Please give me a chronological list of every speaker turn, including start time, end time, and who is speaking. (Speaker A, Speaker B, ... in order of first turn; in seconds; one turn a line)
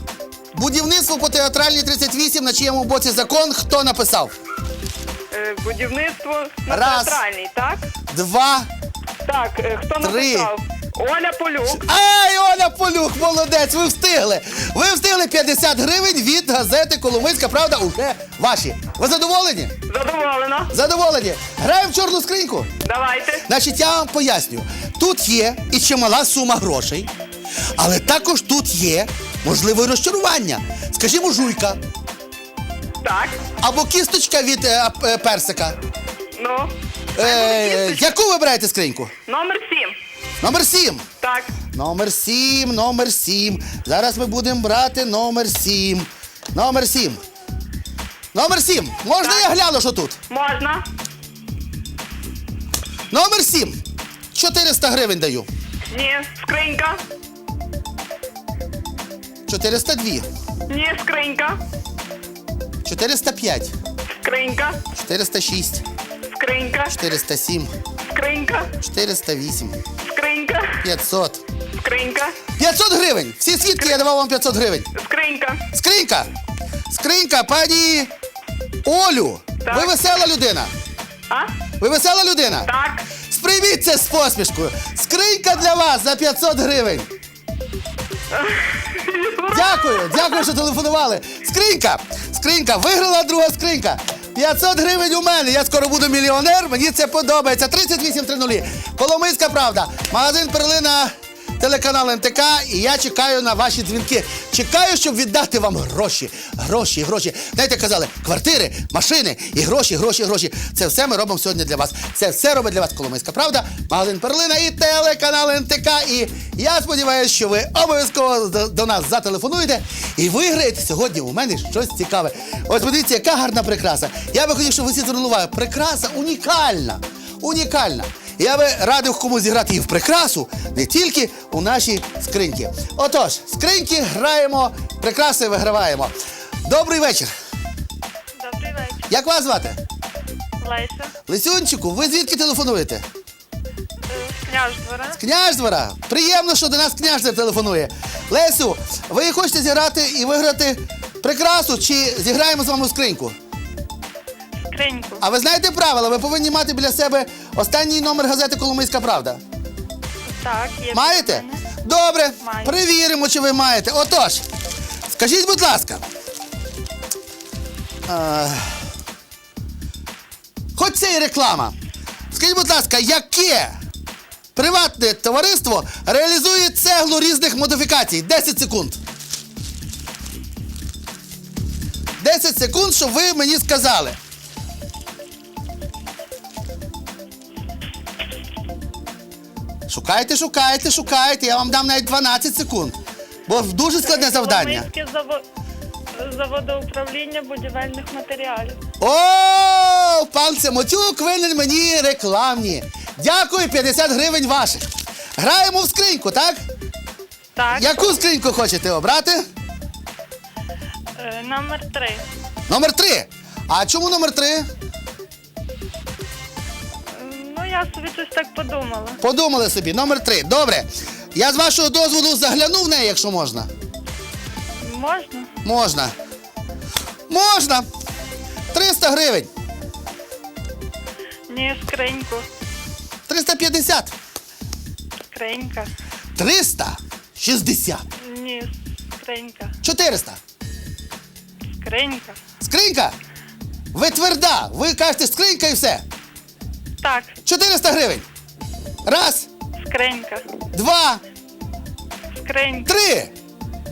Speaker A: 0.5-4.3
Speaker B: 5.3-7.8
Speaker A: 6.7-7.2
Speaker A: 8.1-8.7
Speaker B: 9.2-11.8
Speaker A: 10.0-10.5
Speaker A: 11.7-19.7
Speaker B: 19.9-20.8
Speaker A: 20.7-22.7
Speaker B: 22.8-23.5
Speaker A: 23.5-27.1
Speaker A: 27.7-31.8
Speaker B: 33.0-33.4
Speaker A: 33.6-35.8
Speaker B: 36.4-38.1
Speaker A: 37.2-39.1
Speaker B: 39.3-40.0
Speaker A: 40.4-41.0
Speaker B: 41.2-41.5
Speaker A: 41.7-47.2
Speaker A: 48.3-50.2
Speaker B: 49.2-49.5
Speaker B: 50.3-50.8
Speaker A: 53.1-53.8
Speaker A: 54.3-55.5
Speaker B: 55.9-57.0
Speaker A: 59.5-60.3
Speaker B: 60.7-61.6
Speaker A: 62.9-63.7
Speaker B: 64.2-64.8
Speaker A: 65.0-65.8
Speaker B: 66.3-67.0
Speaker A: 66.9-67.7
Speaker B: 68.1-68.7
Speaker A: 68.8-69.8
Speaker B: 70.0-70.8
Speaker A: 70.8-71.4
Speaker B: 71.8-72.4
Speaker A: 72.6-74.9
Speaker B: 75.0-75.6
Speaker A: 75.7-76.3
Speaker A: 76.9-78.1
Speaker A: 78.8-80.7
Speaker B: 79.7-79.9
Speaker A: 81.8-82.7
Speaker B: 82.6-83.1
Speaker A: 83.3-87.1
Speaker B: 88.3-90.5
Speaker A: 89.5-136.1
Speaker A: 136.7-137.3
Speaker C: 138.4-139.1
Speaker A: 139.1-139.8
Speaker C: 140.6-141.1
Speaker A: 141.3-143.1
Speaker C: 144.1-145.2
Speaker A: 145.2-153.3
Speaker C: 154.7-155.2
Speaker A: 155.2-159.4
Speaker C: 160.3-161.6
Speaker A: 160.9-164.4
Speaker C: 162.4-162.8
Speaker A: 165.1-166.0
Speaker A: 168.1-168.8
Speaker A: 170.8-171.8
Speaker A: 172.3-173.7
Speaker A: 174.6-179.0
Speaker A: 182.2-184.2
Speaker A: 189.9-194.9
Speaker C: 194.0-195.4
Speaker C: 196.2-198.8
Speaker A: 199.0-206.6
Speaker C: 207.6-208.2
Speaker A: 207.8-209.4
Speaker C: 211.2-212.2
Speaker A: 212.7-214.7
Speaker C: 217.1-219.2
Speaker A: 219.2-223.7
Speaker C: 224.8-225.5
Speaker A: 225.6-226.1
Speaker A: 227.3-227.9
Speaker A: 228.7-229.5
Speaker C: 231.5-232.5
Speaker A: 233.3-234.1
Speaker C: 235.3-235.9
Speaker A: 236.4-238.1
Speaker C: 238.2-239.8
Speaker A: 239.8-240.4
Speaker C: 241.8-242.4
Speaker A: 242.6-243.2
Speaker A: 243.9-246.0
Speaker C: 247.0-247.4
Speaker A: 247.4-248.3
Speaker A: 249.1-249.5
Speaker C: 249.8-250.5
Speaker A: 250.7-251.2
Speaker C: 252.3-252.9
Speaker A: 252.9-253.3